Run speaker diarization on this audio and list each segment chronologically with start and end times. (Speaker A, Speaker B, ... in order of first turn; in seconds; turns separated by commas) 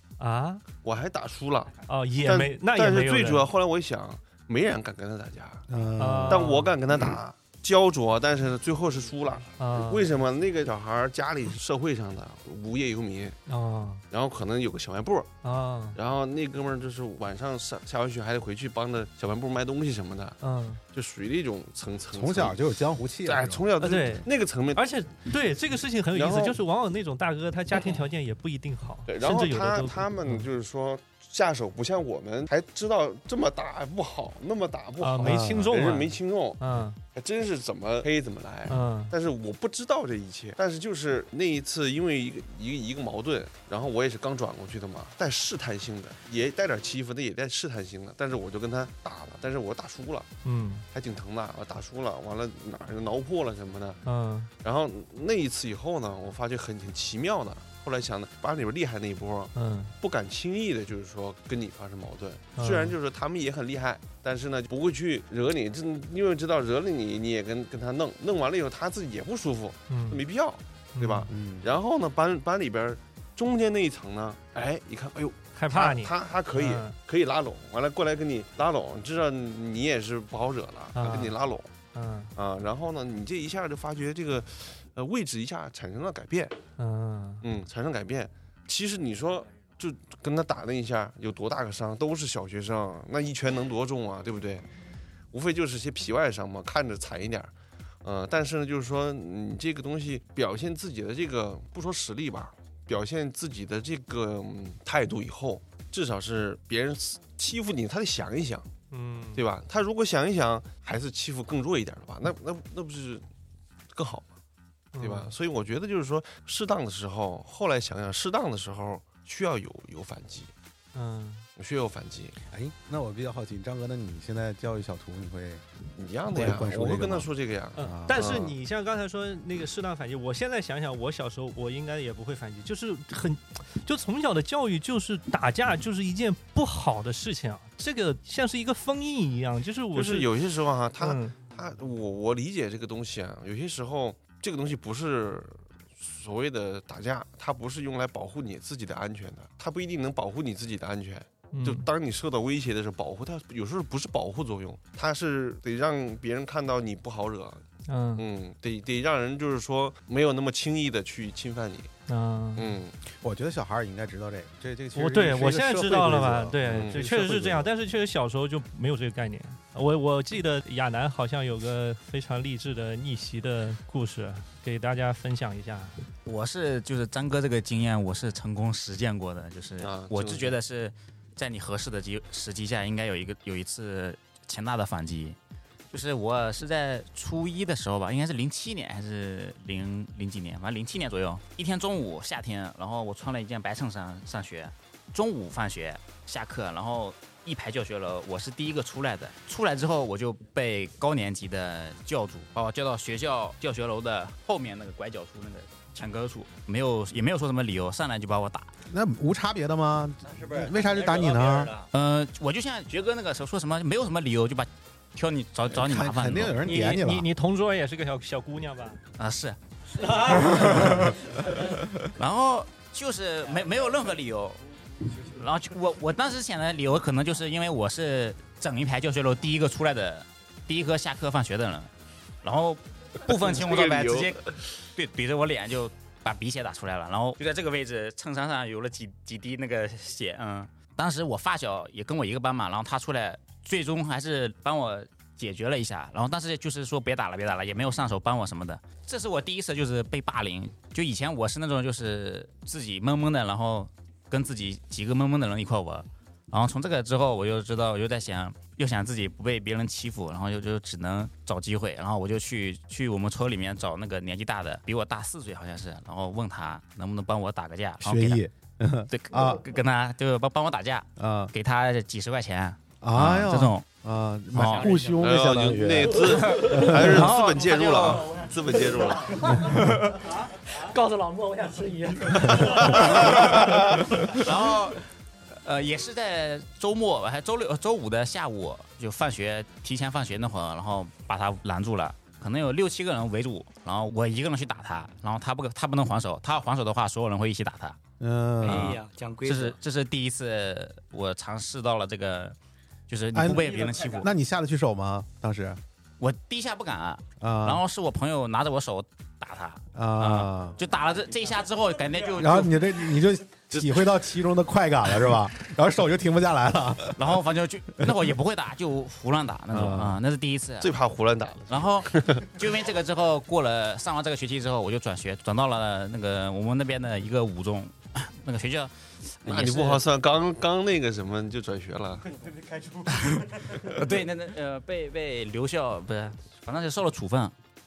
Speaker A: 0.2-0.6, Speaker B: 0.8-5.7, Speaker A: 1.9-3.5, Speaker C: 5.7-6.5, Speaker A: 6.0-6.8, Speaker B: 6.3-13.4, Speaker A: 9.6-10.2, Speaker A: 13.5-14.0, Speaker B: 14.1-15.3, Speaker A: 15.4-16.0, Speaker B: 16.0-20.4, Speaker A: 20.4-20.8, Speaker B: 20.9-22.6, Speaker C: 22.1-23.6, Speaker B: 23.2-24.9, Speaker A: 23.8-30.5, Speaker B: 26.1-26.6, Speaker B: 29.1-36.6, Speaker A: 35.0-37.0, Speaker C: 35.2-35.7, Speaker B: 37.1-50.3, Speaker A: 38.7-39.1, Speaker A: 50.5-50.9, Speaker B: 50.9-54.0, Speaker A: 54.1-54.5, Speaker B: 54.6-81.7, Speaker A: 59.5-59.9, Speaker A: 62.6-63.0, Speaker A: 69.9-70.2, Speaker A: 71.0-71.3, Speaker C: 71.3-71.7, Speaker A: 75.5-76.9, Speaker A: 81.0-81.4, Speaker A: 81.9-82.3, Speaker B: 82.4-86.6, Speaker A: 86.8-87.4, Speaker B: 87.4-94.7, Speaker B: 95.3-97.5, Speaker B: 98.0-108.7, Speaker A: 108.9-109.4, Speaker B: 109.3-113.2, Speaker B: 113.9-114.3, Speaker A: 114.9-115.3, Speaker B: 115.0-120.5, Speaker A: 121.0-121.5, Speaker B: 121.6-122.4, Speaker C: 122.5-125.6, Speaker B: 126.0-128.5, Speaker C: 126.3-128.3, Speaker A: 127.8-140.3, Speaker B: 139.9-157.6, Speaker A: 141.0-141.3, Speaker A: 151.5-151.9, Speaker A: 157.9-158.2, Speaker B: 158.2-161.9, Speaker A: 162.1-162.8, Speaker B: 162.6-162.9, Speaker C: 163.2-167.7, Speaker A: 164.9-176.0, Speaker B: 166.7-167.1, Speaker D: 176.3-185.4, Speaker B: 179.8-180.6, Speaker D: 185.9-208.7, Speaker C: 208.9-211.8, Speaker D: 211.9-216.6, Speaker C: 215.7-217.3, Speaker A: 216.6-219.0, Speaker D: 219.2-219.6, Speaker D: 220.2-224.6, Speaker D: 225.1-231.9, Speaker D: 232.4-234.4, Speaker B: 233.3-234.6, Speaker D: 234.9-268.4, Speaker C: 268.0-269.6, Speaker D: 269.1-273.9, Speaker C: 271.2-271.5, Speaker C: 273.0-277.3, Speaker D: 274.5-274.9, Speaker E: 274.8-275.1, Speaker B: 275.2-279.6, Speaker D: 276.4-278.4, Speaker C: 279.6-279.9, Speaker E: 280.9-282.3, Speaker B: 282.9-284.0, Speaker D: 284.2-285.0, Speaker D: 285.6-298.0, Speaker C: 298.2-299.0, Speaker D: 298.6-302.6, Speaker E: 298.7-299.7, Speaker D: 303.1-304.3, Speaker C: 303.3-305.8, Speaker D: 306.2-312.8, Speaker C: 307.4-307.8, Speaker C: 309.9-310.8, Speaker C: 312.4-317.4, Speaker B: 313.7-314.0, Speaker D: 317.2-321.0, Speaker C: 319.7-320.2, Speaker B: 320.8-322.6, Speaker D: 321.7-330.0, Speaker B: 329.4-332.3, Speaker D: 333.1-337.5